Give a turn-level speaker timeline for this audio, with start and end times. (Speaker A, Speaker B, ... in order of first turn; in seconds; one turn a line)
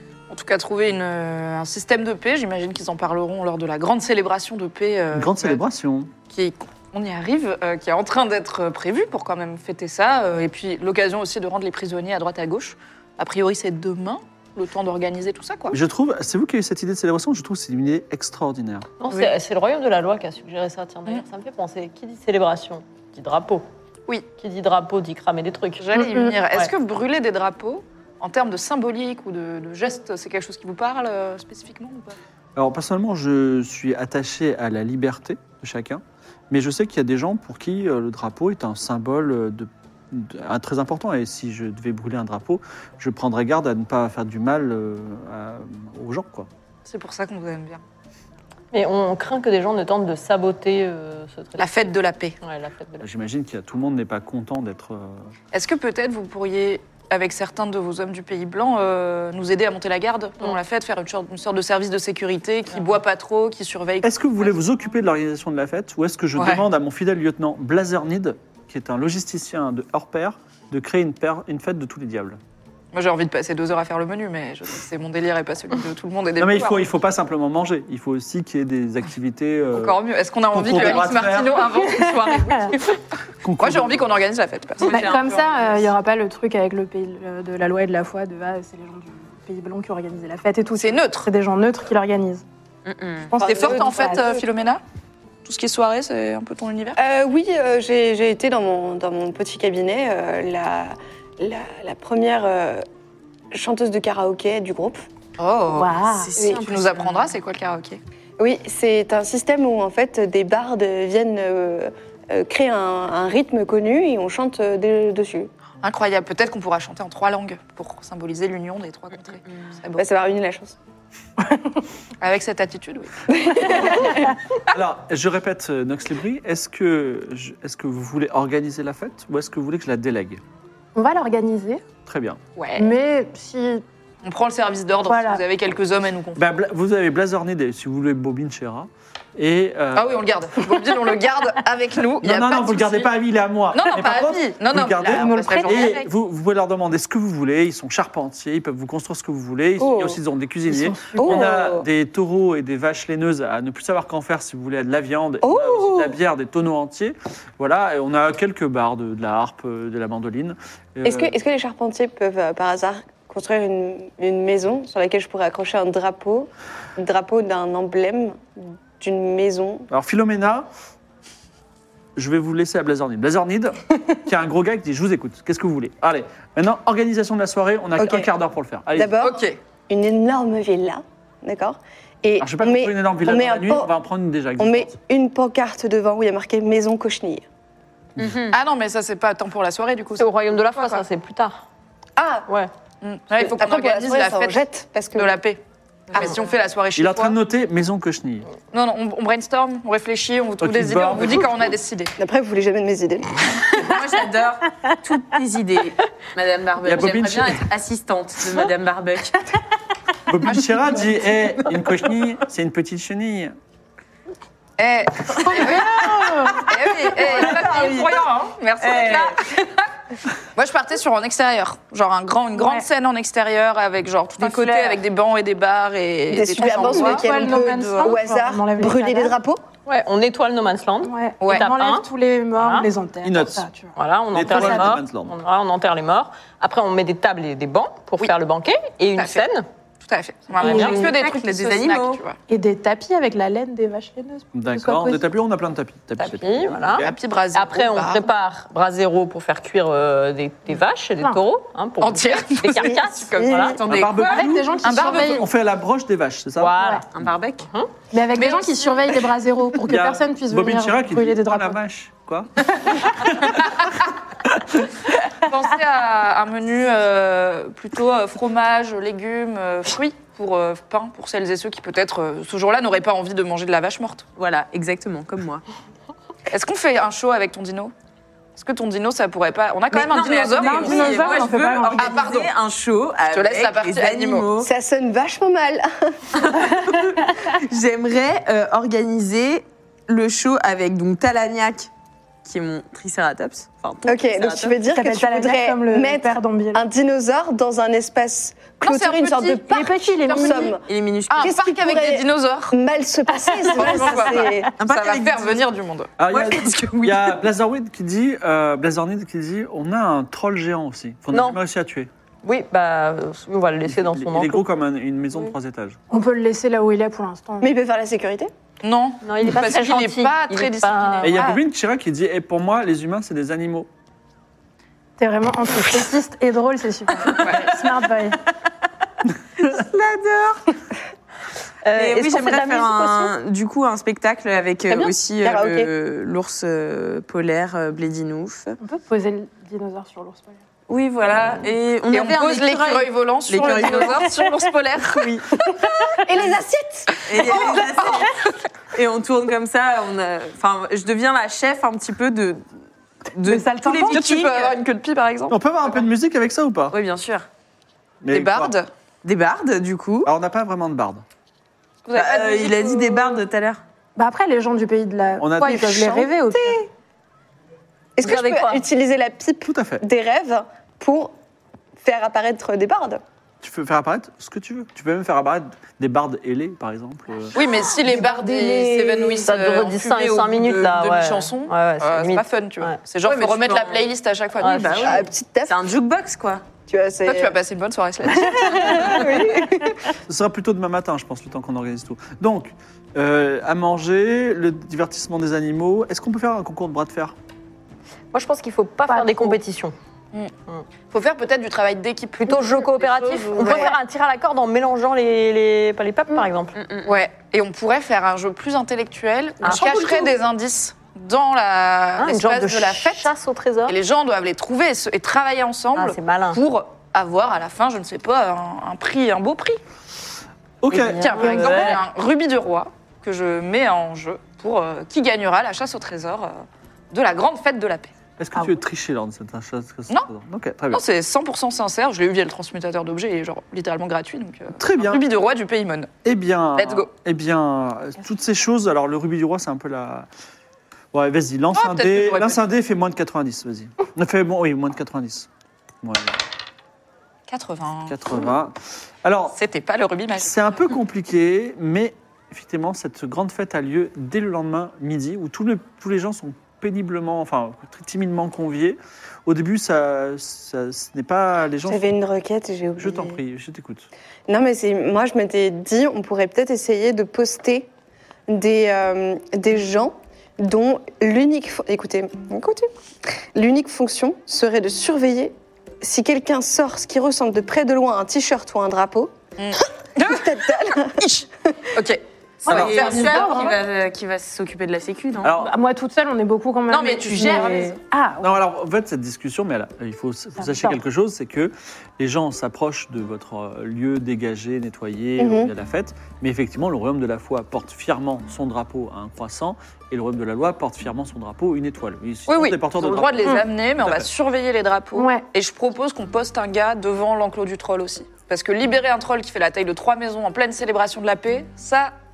Speaker A: 0.3-5.6
Speaker B: 5.1-6.1
Speaker A: 6.3-15.8
Speaker B: 15.7-18.9
Speaker C: 19.0-23.6
Speaker C: 24.4-26.7
Speaker A: 25.8-32.2
Speaker B: 32.6-46.5
Speaker A: 46.9-47.8
Speaker C: 48.7-53.1
Speaker A: 51.6-52.4
Speaker B: 53.0-55.3
Speaker A: 55.5-64.6
Speaker B: 64.0-72.4
Speaker A: 66.4-66.6
Speaker A: 72.9-76.8
Speaker B: 76.4-80.0
Speaker A: 79.7-83.0
Speaker B: 80.5-81.7
Speaker B: 83.4-84.1
Speaker A: 83.6-85.2
Speaker D: 84.8-85.9
Speaker E: 84.9-92.4
Speaker A: 90.8-91.3
Speaker D: 92.8-93.3
Speaker E: 93.3-94.2
Speaker F: 93.4-94.4
Speaker A: 93.4-94.8
Speaker A: 95.5-97.0
Speaker F: 97.0-102.8
Speaker F: 103.5-105.0
Speaker A: 105.4-108.0
Speaker E: 105.8-106.5
Speaker D: 106.1-107.3
Speaker F: 108.4-115.5
Speaker A: 115.8-120.0
Speaker F: 120.0-120.8
Speaker A: 122.2-124.1
Speaker F: 123.3-124.1
Speaker B: 124.7-130.4
Speaker E: 130.9-131.9
Speaker B: 132.0-132.4
Speaker A: 132.6-133.0
Speaker E: 132.8-133.8
Speaker A: 134.2-136.4
Speaker E: 135.1-135.4
Speaker B: 136.4-140.2
Speaker A: 139.9-143.1
Speaker B: 142.2-161.3
Speaker A: 143.7-146.1
Speaker E: 145.2-145.9
Speaker F: 149.8-150.2
Speaker E: 150.7-151.5
Speaker F: 151.1-151.9
Speaker F: 155.4-156.2
Speaker F: 161.0-169.9
Speaker B: 169.9-170.7
Speaker B: 172.2-179.2
Speaker F: 178.0-178.3
Speaker F: 178.9-183.9
Speaker A: 179.2-179.6
Speaker B: 182.4-184.9
Speaker F: 184.6-187.4
Speaker D: 188.2-188.6
Speaker A: 188.5-191.0
Speaker C: 190.2-191.6
Speaker F: 192.2-192.5
Speaker A: 193.0-194.6
Speaker F: 193.3-195.4
Speaker A: 195.1-195.6
Speaker A: 196.1-197.4
Speaker B: 197.0-198.5
Speaker A: 198.7-202.1
Speaker B: 200.6-201.7
Speaker F: 202.2-203.4
Speaker D: 203.7-209.4
Speaker B: 206.8-207.6
Speaker B: 210.3-213.5
Speaker A: 214.8-219.7
Speaker E: 215.6-216.7
Speaker D: 217.2-218.1
Speaker D: 218.8-219.3
Speaker A: 220.6-228.2
Speaker E: 222.6-222.8
Speaker C: 224.6-224.9
Speaker F: 226.3-229.6
Speaker E: 226.6-229.3
Speaker C: 229.9-232.9
Speaker E: 231.0-235.0
Speaker A: 231.4-231.7
Speaker B: 233.2-233.6
Speaker C: 234.0-239.6
Speaker B: 234.3-235.4
Speaker A: 239.2-239.5
Speaker A: 240.0-242.4
Speaker C: 240.6-241.1
Speaker D: 240.6-242.2
Speaker E: 240.7-241.1
Speaker E: 242.5-245.2
Speaker B: 244.5-247.2
Speaker C: 246.2-253.8
Speaker A: 247.0-248.3
Speaker A: 252.0-255.5
Speaker F: 252.7-253.9
Speaker B: 253.9-256.8
Speaker E: 254.2-255.5
Speaker C: 256.6-257.0
Speaker D: 257.1-257.7
Speaker E: 258.1-261.8
Speaker A: 258.4-259.1
Speaker B: 259.8-263.8
Speaker A: 265.4-274.3
Speaker D: 274.4-275.6
Speaker A: 276.5-277.9
Speaker A: 278.6-282.5
Speaker D: 279.9-284.7
Speaker E: 280.6-282.2
Speaker A: 283.3-284.5
Speaker F: 284.6-286.2
Speaker D: 286.4-291.9
Speaker D: 292.4-294.8
Speaker F: 294.1-300.8
Speaker E: 294.8-296.8
Speaker A: 298.8-300.7
Speaker E: 299.7-300.8
Speaker D: 300.8-301.5
Speaker A: 301.3-302.8
Speaker F: 301.4-304.7
Speaker E: 303.6-304.1
Speaker A: 303.7-306.2
Speaker D: 304.8-305.6
Speaker B: 306.2-312.1
Speaker D: 306.3-307.3
Speaker C: 311.3-311.6
Speaker C: 312.4-314.6
Speaker B: 313.9-316.0
Speaker E: 316.1-317.7
Speaker F: 317.6-318.5
Speaker A: 318.8-321.6
Speaker C: 319.2-321.5
Speaker B: 321.2-323.9
Speaker E: 325.2-328.4
Speaker A: 327.4-327.7
Speaker D: 329.6-330.6
Speaker C: 331.8-333.4
Speaker D: 331.9-338.8
Speaker F: 334.9-335.9
Speaker E: 338.8-340.6
Speaker D: 340.9-344.3
Speaker A: 342.1-345.7
Speaker F: 346.2-347.9
Speaker D: 347.3-348.3
Speaker A: 347.4-348.2
Speaker D: 348.9-352.6
Speaker D: 353.3-354.8
Speaker E: 353.5-354.2
Speaker A: 354.1-355.6
Speaker B: 355.5-357.0
Speaker D: 356.9-357.5
Speaker B: 358.2-358.8
Speaker A: 358.3-358.9
Speaker D: 359.2-360.3
Speaker B: 360.2-361.2
Speaker A: 362.1-363.4
Speaker D: 362.1-363.8
Speaker E: 364.1-366.9
Speaker B: 365.4-366.2
Speaker F: 366.1-366.7
Speaker F: 368.2-371.3
Speaker C: 368.2-368.8
Speaker B: 369.6-370.0
Speaker F: 372.0-373.2
Speaker B: 373.6-377.6
Speaker A: 377.5-385.2
Speaker C: 378.1-383.0
Speaker E: 378.2-379.1
Speaker D: 383.2-384.0
Speaker C: 384.6-385.2
Speaker D: 384.8-386.6
Speaker F: 385.0-385.9
Speaker F: 386.9-387.5
Speaker A: 387.2-389.5
Speaker F: 388.6-390.0
Speaker B: 390.3-397.3
Speaker C: 398.3-399.9
Speaker E: 399.1-399.6
Speaker A: 401.1-404.0
Speaker C: 402.4-406.8
Speaker D: 406.8-407.2
Speaker A: 407.1-413.3
Speaker C: 409.6-410.3
Speaker C: 412.2-414.0
Speaker A: 413.9-419.8
Speaker C: 416.0-416.6
Speaker B: 420.8-421.9
Speaker C: 420.9-422.0
Speaker A: 421.2-428.1
Speaker B: 428.4-431.0
Speaker A: 430.9-436.1
Speaker B: 434.8-435.2
Speaker B: 436.2-440.3
Speaker A: 436.8-437.1
Speaker B: 441.1-445.5
Speaker A: 441.7-442.6
Speaker B: 446.0-446.4
Speaker A: 447.5-448.5
Speaker B: 448.1-449.6
Speaker A: 449.5-450.9
Speaker B: 450.4-462.1
Speaker F: 461.8-463.4
Speaker B: 463.0-464.1
Speaker F: 464.5-467.9
Speaker F: 468.5-472.9
Speaker F: 473.5-479.3
Speaker A: 479.6-480.5
Speaker F: 480.2-481.2
Speaker A: 481.1-483.8
Speaker D: 482.7-485.5
Speaker B: 482.7-482.9
Speaker E: 482.7-483.8
Speaker B: 485.4-485.7
Speaker E: 485.6-488.6
Speaker A: 486.9-488.0
Speaker B: 488.4-504.3
Speaker E: 490.6-491.0
Speaker F: 495.4-495.7
Speaker A: 502.5-512.1
Speaker E: 505.1-505.4